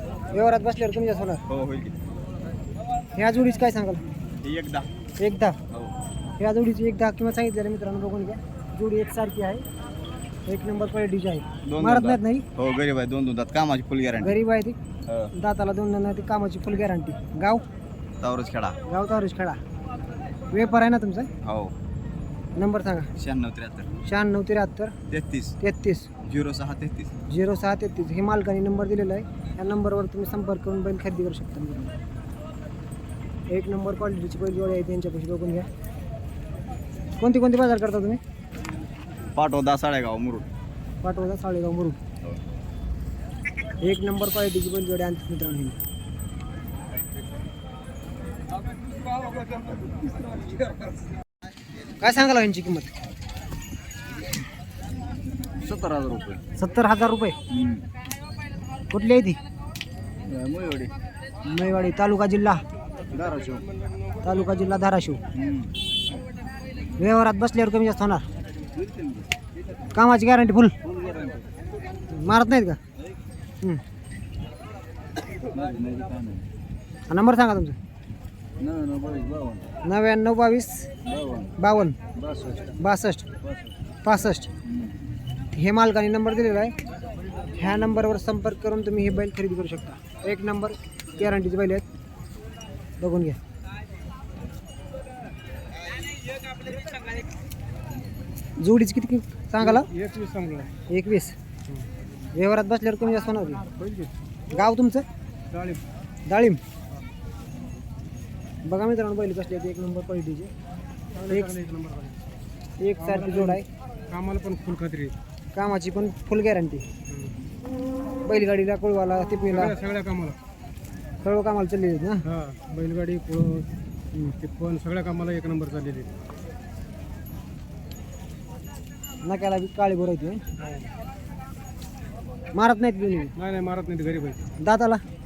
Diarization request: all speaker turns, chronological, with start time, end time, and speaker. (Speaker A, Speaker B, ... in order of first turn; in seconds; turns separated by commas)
Speaker A: 0.3-1.4, Speaker B: 1.5-2.0, Speaker A: 3.1-4.0, Speaker B: 4.4-4.9, Speaker A: 5.2-5.6, Speaker A: 6.4-9.6, Speaker A: 10.5-12.4, Speaker B: 11.7-14.4, Speaker A: 14.2-14.8, Speaker B: 15.1-15.3, Speaker A: 15.3-17.6, Speaker B: 18.2-18.8, Speaker A: 18.9-19.6, Speaker A: 20.5-21.3, Speaker B: 21.4-21.7, Speaker A: 22.6-23.1, Speaker B: 23.2-23.9, Speaker A: 24.1-24.9, Speaker B: 25.1-25.6, Speaker A: 25.6-26.1, Speaker B: 26.2-27.1, Speaker A: 27.3-31.9, Speaker A: 33.5-35.7, Speaker A: 37.2-38.2, Speaker B: 39.3-40.5, Speaker A: 41.0-42.0, Speaker A: 43.8-45.8, Speaker A: 52.0-52.9, Speaker B: 55.6-56.4, Speaker A: 56.6-57.4, Speaker B: 57.5-57.8, Speaker A: 58.9-59.4, Speaker B: 60.3-60.9, Speaker A: 61.4-62.6, Speaker B: 63.1-63.6, Speaker A: 64.2-65.2, Speaker B: 65.3-65.7, Speaker A: 67.0-68.2, Speaker B: 68.8-69.2, Speaker A: 69.9-70.8, Speaker B: 70.9-71.4, Speaker A: 72.1-72.8, Speaker B: 75.6-76.4, Speaker A: 77.1-77.8, Speaker B: 78.6-79.6, Speaker A: 79.8-80.9, Speaker B: 81.1-81.5, Speaker A: 81.6-82.0, Speaker A: 82.8-83.2, Speaker A: 84.0-84.5, Speaker A: 85.5-86.7, Speaker A: 87.5-91.8, Speaker A: 93.0-93.4, Speaker A: 98.6-99.9, Speaker C: 99.6-100.7, Speaker A: 100.9-101.3, Speaker A: 102.3-103.6, Speaker C: 103.7-104.1, Speaker A: 104.5-105.0, Speaker C: 105.5-105.8, Speaker A: 106.3-106.6, Speaker A: 108.7-110.5, Speaker C: 111.1-112.2, Speaker A: 112.8-113.7, Speaker C: 113.0-115.1, Speaker A: 115.5-116.8, Speaker C: 117.1-117.3, Speaker A: 118.2-119.8, Speaker C: 119.5-120.4, Speaker A: 121.2-122.2, Speaker C: 122.3-123.7, Speaker C: 124.4-126.1, Speaker A: 129.2-130.4, Speaker C: 130.6-130.9, Speaker A: 132.5-133.3, Speaker C: 133.4-134.4, Speaker A: 134.6-135.0